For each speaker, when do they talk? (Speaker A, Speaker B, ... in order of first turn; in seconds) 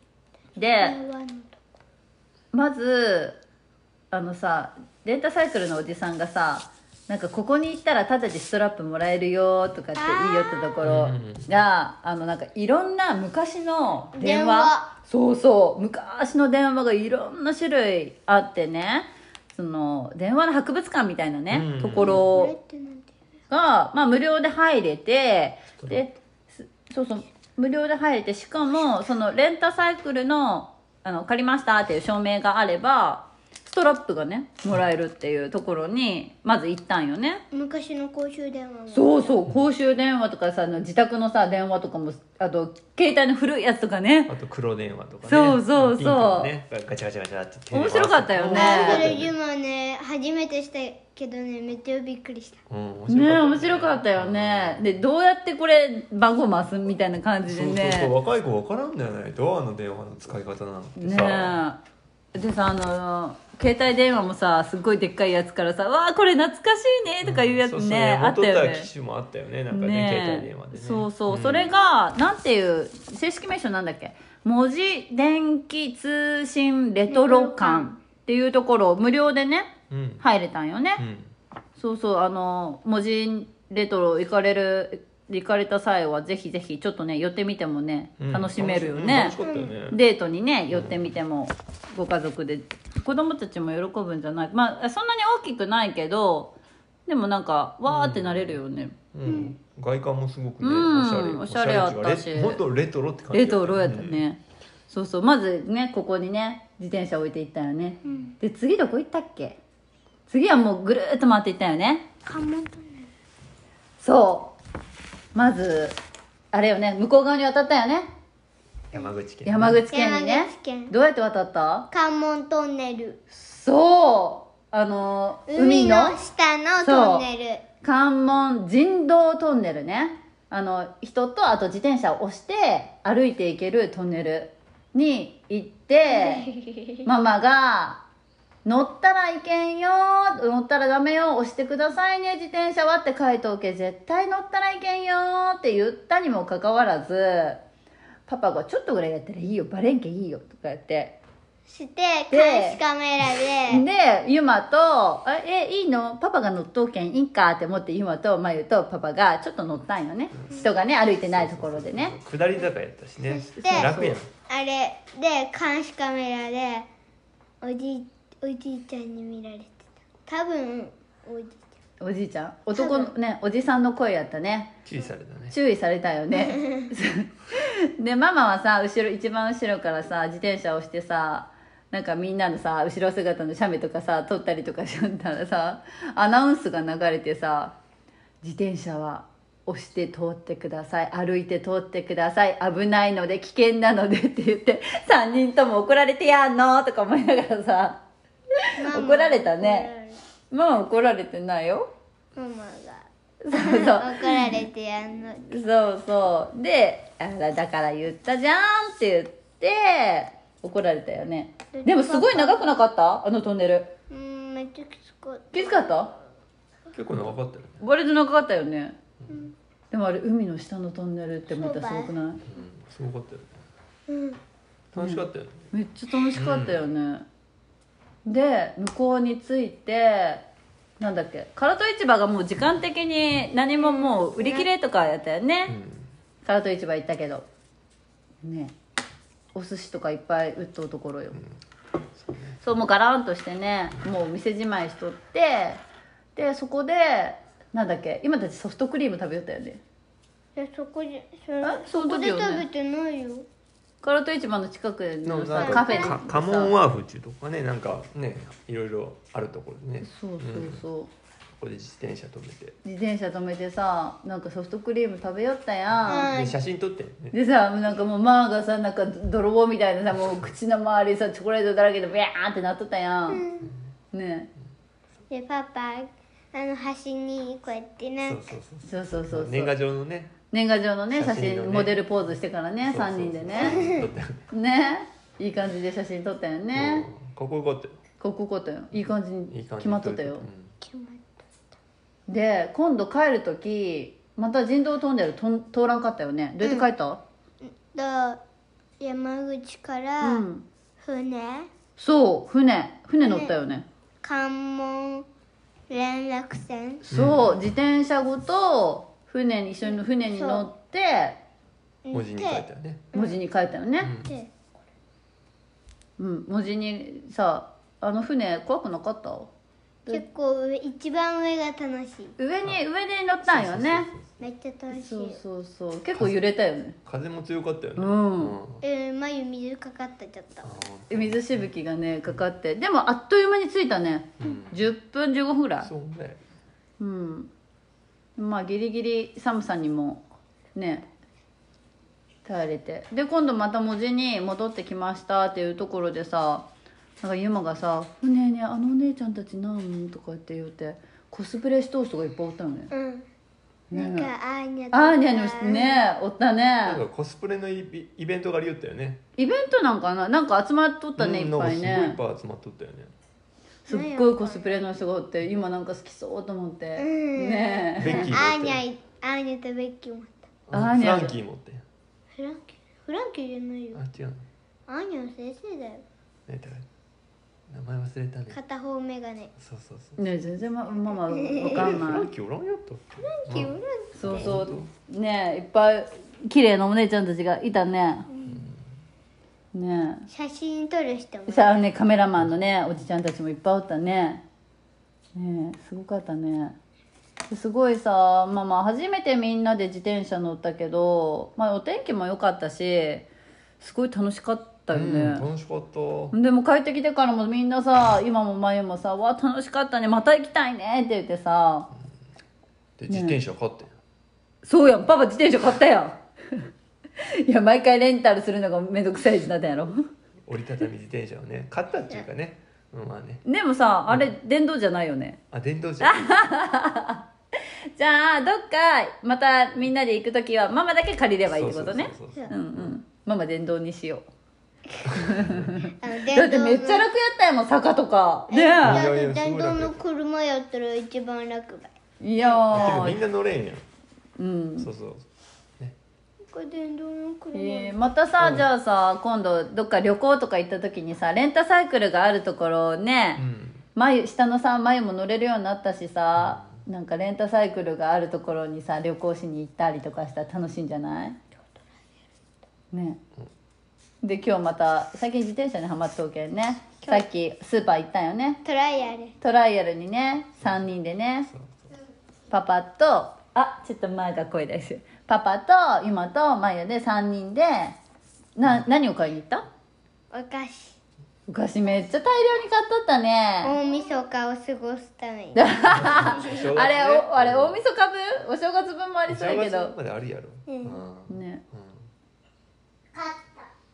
Speaker A: 0.6-1.0, 2.5-3.4, 4.1-22.5, 23.5-37.4, 38.9-44.3, 45.3-46.5, 47.7-49.1, 53.1-58.1, 61.0-61.8, 62.3-68.9, 69.7-81.0, 81.8-89.4, 89.9-96.5, 97.1-99.0, 100.6-102.6, 103.3-109.6, 110.3-112.1, 114.0-114.6, 115.3-116.0, 116.5-118.1, 119.5-121.9, 123.3-126.2, 126.8-127.3, 127.8-136.5, 137.1-138.0, 138.7-147.6, 148.3-151.2, 152.3-152.8, 153.7-162.2, 163.6-164.2, 172.0-174.8, 175.5-187.8, 188.4-198.0, 198.6-199.9, 200.5-201.9, 203.4-204.6, 205.5-213.9, 215.5-216.1, 217.8-219.0, 219.9-222.4, 225.0-227.3, 228.2-230.4, 231.0-235.8, 236.4-237.5, 238.4-238.7, 239.6-241.4, 242.6-245.8, 246.3-249.8, 251.6-252.7, 254.0-256.7, 260.0-261.1, 262.8-266.3, 267.3-273.4, 274.1-274.5, 278.8-279.8, 280.5-283.8, 284.5-287.1, 288.2-290.5, 292.3-297.2, 300.2-300.6, 302.0-303.9, 307.1-311.4, 313.1-314.1, 316.2-319.5, 322.4-324.1, 324.9-327.0, 328.0-328.6, 331.1-335.9, 337.0-337.5, 338.4-341.1, 342.4-346.7, 347.2-352.9, 353.9-354.3, 354.9-357.0, 359.4-362.2, 363.9-368.4, 370.7-371.4, 380.2-382.3, 384.1-388.3, 389.7-390.3, 391.5-394.4, 395.4-396.8, 397.5-403.3, 403.8-405.5, 406.3-411.9, 413.1-413.4, 414.6-416.7, 417.2-420.1, 423.5-425.4, 426.0-427.2, 428.0-434.3, 435.2-439.1, 442.2-443.2, 444.4-444.9, 447.5-453.4, 453.9-461.4, 462.9-463.2, 464.2-468.6, 469.4-471.5, 472.5-478.0, 478.6-479.7, 481.5-483.8, 485.6-489.9, 491.3-491.6
Speaker B: 0.6-1.6, 10.0-10.8, 14.2-14.9, 21.9-23.1, 37.5-39.3, 48.5-52.6, 77.1-77.9, 89.4-89.8, 99.2-99.6, 108.0-108.3, 112.2-113.1, 119.9-120.9, 121.9-123.2, 125.5-127.6, 136.1-137.0, 151.7-153.8, 163.3-163.9, 164.5-166.9, 167.6-171.7, 172.8-173.1, 176.4-176.8, 198.8-200.2, 202.4-205.6, 211.7-212.8, 214.1-216.1, 221.5-222.1, 224.1-224.4, 233.8-234.7, 250.6-253.5, 255.6-256.2, 266.1-266.6, 273.3-273.7, 275.3-278.5, 283.6-284.1, 290.8-291.4, 296.6-296.9, 297.6-298.4, 299.0-300.4, 301.0-301.7, 303.2-303.5, 304.2-305.3, 305.9-307.0, 309.9-310.6, 312.1-313.4, 314.3-314.5, 320.1-322.4, 324.4-325.4, 328.8-330.8, 352.9-353.3, 353.9-356.0, 363.9-364.9, 367.0-370.5, 372.4-374.0, 374.9-376.1, 378.5-379.5, 381.3-381.9, 383.2-384.2, 388.3-388.7, 390.3-391.9, 436.0-437.1, 438.5-443.0, 446.5-448.0, 468.6-469.4, 480.3-481.0, 483.6-486.6, 490.7-491.0, 493.1-493.6
Speaker C: 10.8-11.5, 21.5-22.3, 44.3-49.3, 52.7-55.0, 57.5-61.6, 67.2-71.7, 79.9-80.2, 81.0-81.3, 88.2-90.0, 90.7-91.1, 97.9-98.6, 99.1-104.2, 118.9-119.8, 160.3-164.3, 174.8-175.6, 216.9-217.8, 222.5-223.5, 224.9-225.7, 226.3-226.8, 235.7-236.1, 242.2-242.6, 255.2-260.8, 261.6-262.8, 266.1-267.4, 278.2-280.3, 281.1-282.0, 282.8-284.5, 286.7-288.0, 289.5-290.7, 307.1-307.6, 312.1-313.1, 314.0-314.3, 323.4-324.4, 327.1-328.8, 330.6-331.7, 334.4-334.9, 335.8-336.4, 356.9-359.2, 361.2-363.1, 368.0-368.8, 370.7-371.9, 373.9-374.4, 376.5-376.9, 377.7-378.6, 379.6-380.2, 381.6-384.9, 388.5-388.8, 404.9-406.4, 413.0-413.9, 420.5-423.4, 425.5-426.3, 431.5-432.9, 435.1-435.7, 438.8-440.0, 442.7-443.9, 444.8-445.3, 448.4-448.7, 453.4-453.8, 456.4-456.7, 470.6-470.9, 471.5-471.9, 485.9-487.8, 489.3-492.0